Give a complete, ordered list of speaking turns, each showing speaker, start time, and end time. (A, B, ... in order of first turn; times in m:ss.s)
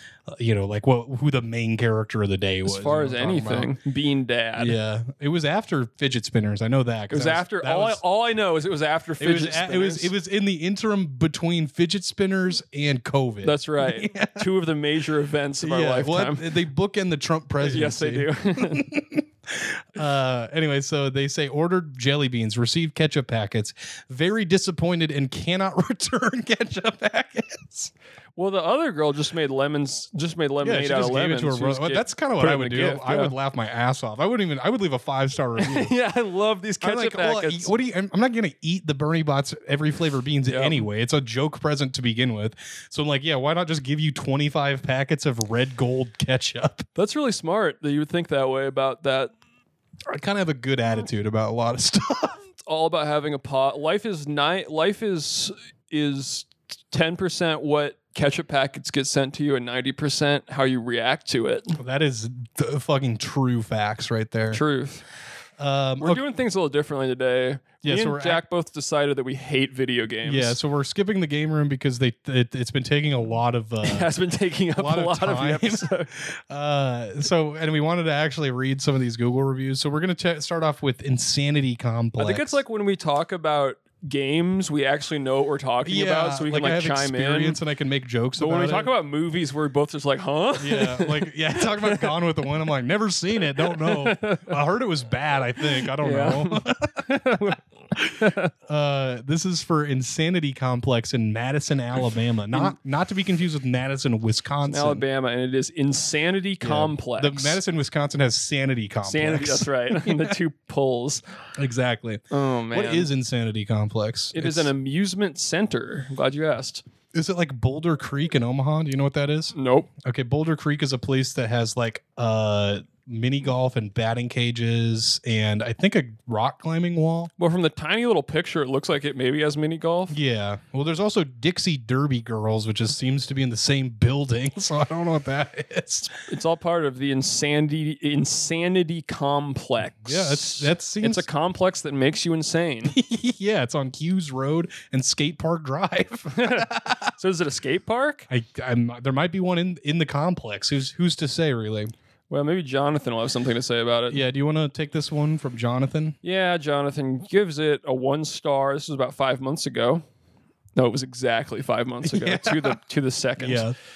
0:00.3-0:03.7 A
0:02.6-0:04.8 B
0:04.6-0:08.0 A
0:07.1-0:10.1 B
0:09.2-0:14.5 A
0:13.4-0:16.5 B
0:15.6-0:27.9 A
0:17.6-0:18.8 B
0:28.4-0:33.4 B
0:30.6-0:35.9 A
0:35.6-0:37.7 B
0:36.8-0:46.9 A
0:40.5-0:40.8 B
0:47.0-0:49.3 B
0:50.1-0:52.4 A
0:52.6-1:01.8 B
1:01.8-1:04.6 A
1:04.5-1:05.0 B
1:05.6-1:06.2 A
1:06.0-1:10.6 B
1:07.8-1:08.4 A
1:10.2-1:14.1 A
1:13.8-1:16.1 B
1:14.7-1:22.6 A
1:22.2-1:27.6 B
1:25.8-1:28.9 A
1:28.4-1:32.1 B
1:30.6-1:37.4 A
1:33.6-1:34.5 B
1:36.0-1:37.6 B
1:38.2-1:38.5 B
1:38.7-1:45.0 A
1:44.7-1:47.6 B
1:46.6-1:50.4 A
1:49.0-1:51.2 B
1:51.6-1:54.7 A
1:52.3-1:53.1 B
1:54.3-1:56.8 B
1:57.1-2:07.3 A
1:59.5-1:59.9 B
2:07.4-2:10.2 B
2:10.1-2:16.1 A
2:16.3-2:23.0 B
2:20.0-2:21.2 A
2:22.9-2:27.1 A
2:26.3-2:28.3 B
2:28.3-2:31.9 A
2:32.3-2:34.2 B
2:34.1-2:36.2 A
2:36.2-2:40.0 B
2:40.8-2:43.7 B
2:42.0-2:42.8 A
2:43.4-2:43.8 A